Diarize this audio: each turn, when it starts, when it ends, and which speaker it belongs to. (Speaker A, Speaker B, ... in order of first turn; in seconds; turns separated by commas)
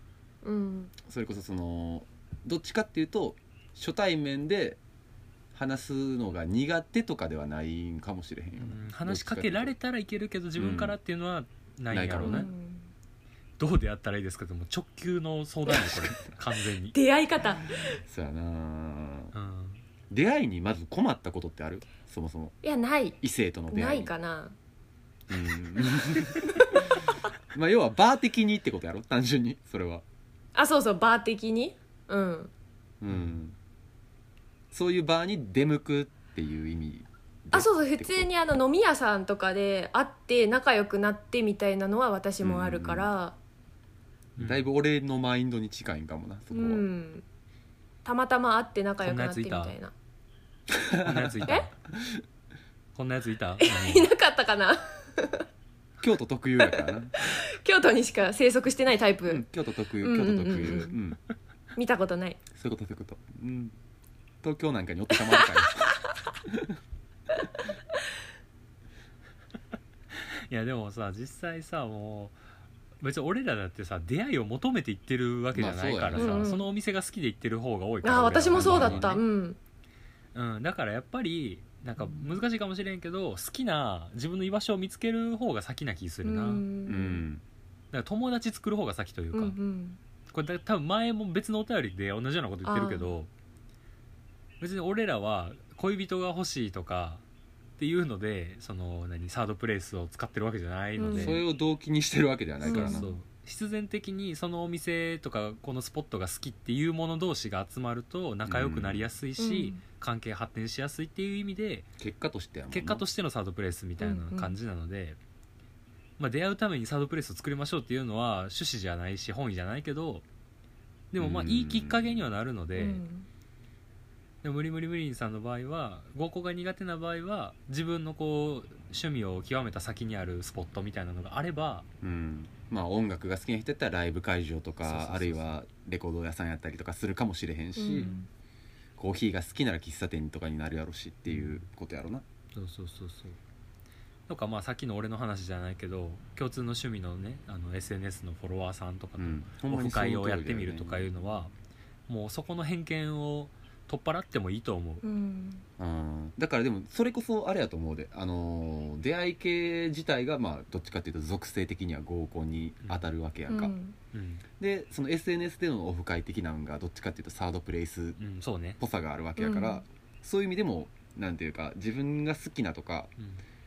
Speaker A: 0.4-0.9, Speaker B: 1.0-4.8, Speaker B: 5.5-9.7, Speaker C: 8.6-12.5, Speaker B: 10.6-11.0, Speaker B: 11.9-12.5, Speaker A: 12.2-12.9, Speaker C: 13.6-17.0, Speaker B: 15.7-16.2, Speaker A: 16.9-18.0, Speaker B: 18.0-19.3, Speaker C: 19.3-19.8, Speaker B: 20.1-22.6, Speaker A: 22.6-23.2, Speaker B: 23.2-24.1, Speaker A: 23.7-24.5, Speaker B: 25.3-30.0, Speaker A: 26.6-26.9, Speaker A: 30.6-32.5, Speaker B: 33.0-33.6, Speaker B: 34.7-38.3, Speaker A: 37.5-43.4, Speaker B: 42.4-43.1, Speaker C: 44.4-44.7, Speaker B: 44.4-46.9, Speaker A: 46.5-47.2, Speaker A: 48.0-49.9, Speaker C: 49.0-49.8, Speaker B: 50.7-51.5, Speaker C: 51.0-51.7, Speaker C: 53.0-54.1, Speaker A: 53.6-55.5, Speaker B: 56.0-57.1, Speaker A: 56.6-59.5, Speaker B: 59.3-61.2, Speaker A: 60.0-61.0, Speaker A: 61.8-62.4, Speaker B: 62.5-63.8, Speaker B: 64.4-66.8, Speaker C: 70.1-72.4, Speaker C: 73.0-79.2, Speaker B: 75.5-76.5, Speaker A: 76.2-76.7, Speaker A: 78.0-79.6, Speaker B: 78.5-79.2, Speaker C: 80.3-86.7, Speaker A: 86.2-87.2, Speaker B: 86.9-87.4, Speaker C: 87.9-89.6, Speaker A: 89.3-90.0, Speaker C: 90.3-93.3, Speaker A: 92.7-93.1, Speaker C: 94.6-97.2, Speaker C: 97.8-101.4, Speaker A: 101.0-101.4, Speaker B: 101.1-103.1, Speaker A: 102.6-103.1, Speaker C: 102.7-111.9, Speaker B: 108.5-109.1, Speaker A: 109.4-109.8, Speaker B: 112.0-113.0, Speaker C: 112.7-115.2, Speaker A: 114.0-114.6, Speaker C: 116.2-120.2, Speaker C: 121.1-123.0, Speaker B: 121.2-122.2, Speaker A: 122.8-123.3, Speaker C: 124.4-131.9, Speaker B: 132.0-138.1, Speaker C: 134.8-135.5, Speaker A: 137.8-138.3, Speaker B: 139.0-142.2, Speaker C: 141.3-141.7, Speaker C: 142.5-143.4, Speaker C: 144.3-151.5, Speaker B: 149.2-151.3, Speaker C: 152.1-155.0, Speaker A: 155.0-155.7, Speaker B: 155.8-163.7, Speaker A: 163.5-163.9, Speaker C: 164.1-164.4, Speaker B: 164.6-168.2, Speaker C: 168.2-168.8, Speaker B: 168.8-173.1, Speaker A: 169.4-169.8